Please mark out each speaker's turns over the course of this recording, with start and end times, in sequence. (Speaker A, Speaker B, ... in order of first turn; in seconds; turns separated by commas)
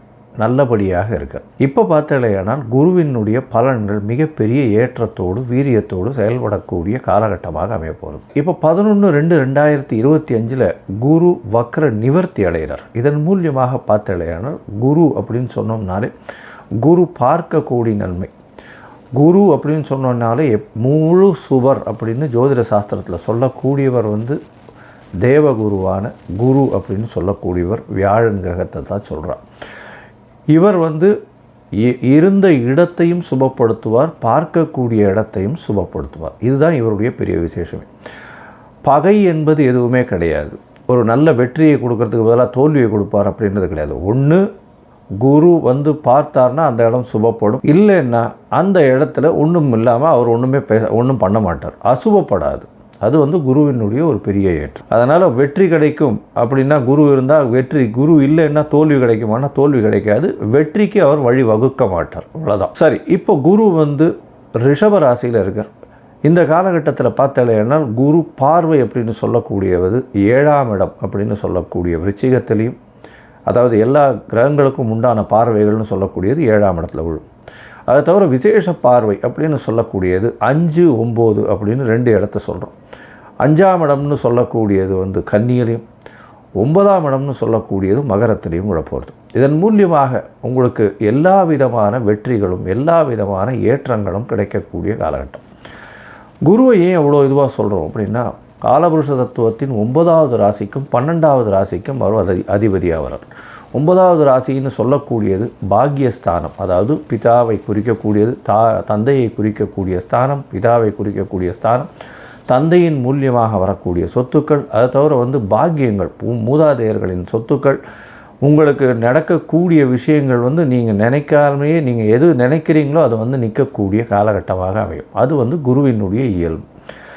Speaker A: 0.4-16.1, Speaker A: 16.8-18.3, Speaker A: 19.1-24.4, Speaker A: 25.2-29.4, Speaker A: 30.5-31.1, Speaker A: 31.8-37.9, Speaker A: 38.8-44.5, Speaker A: 45.2-64.1, Speaker A: 64.6-65.7, Speaker A: 66.2-72.8, Speaker A: 73.5-77.2, Speaker A: 77.9-82.7, Speaker A: 83.4-85.8, Speaker A: 86.6-95.4, Speaker A: 96.5-111.9, Speaker A: 112.5-117.8, Speaker A: 118.4-126.6